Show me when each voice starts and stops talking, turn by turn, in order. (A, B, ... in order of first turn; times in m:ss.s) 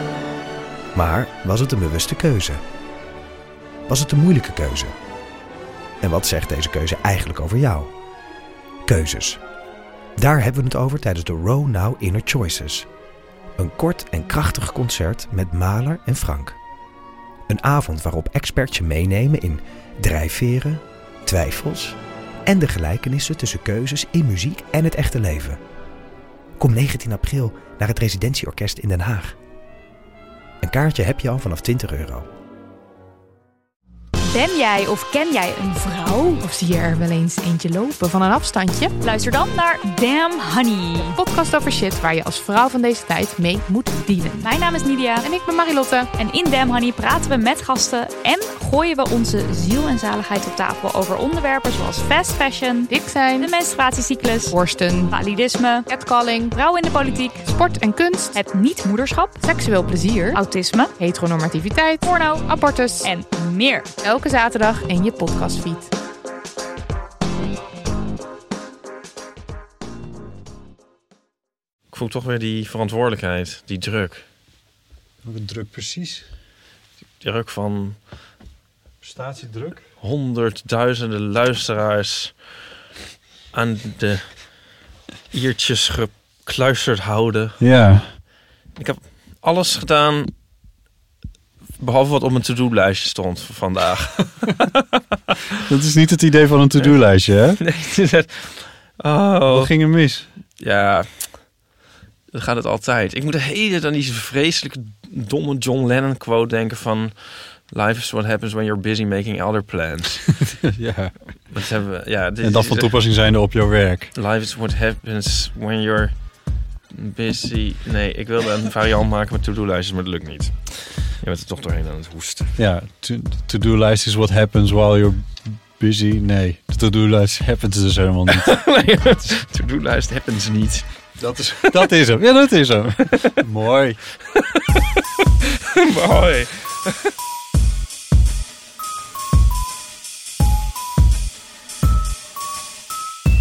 0:00.9-0:02.6 A
0:03.9-0:04.9 A
0:06.0-0:07.9 A
0:08.9-0:09.4 A
0:10.2-0:12.9 A
0:13.6-0:16.6 A
0:17.5-0:25.6 A
0:26.6-0:29.4 A
0:30.6-0:32.2 A
0:34.2-0:36.4 B
0:36.4-0:38.9 C
0:39.0-0:41.2 B
0:41.0-0:44.5 C
0:44.4-0:45.3 B
0:45.2-0:46.1 C
0:46.2-0:54.6 B
0:52.9-0:53.5 C
0:54.5-0:55.1 C
0:55.1-0:55.9 B
0:55.9-0:56.6 C
0:56.5-0:57.4 B
0:57.4-0:58.4 C
0:58.3-0:59.4 B
0:59.4-1:00.4 C
1:00.3-1:00.9 B
1:01.0-1:03.1 C
1:02.0-1:02.5 B
1:03.0-1:03.9 B
1:04.0-1:05.9 C
1:11.9-1:14.2 D
1:15.2-1:16.2 E
1:17.2-1:18.0 D
1:19.0-1:19.8 E
1:20.0-1:22.3 D
1:23.5-1:24.4 D
1:25.3-1:27.6 D
1:27.6-1:28.1 E
1:28.8-1:30.3 D
1:31.8-1:35.4 D
1:35.6-1:37.6 E
1:37.6-1:39.7 D
1:39.5-1:40.3 E
1:40.6-1:41.4 D
1:42.3-1:50.3 D
1:50.5-1:51.1 E
1:51.5-1:52.9 D
1:52.4-1:54.1 E
1:54.2-1:56.1 D
1:56.9-2:02.5 D
2:02.6-2:08.6 E
2:08.3-2:10.8 D
2:11.2-2:14.0 E
2:11.6-2:11.9 D
2:14.4-2:17.1 D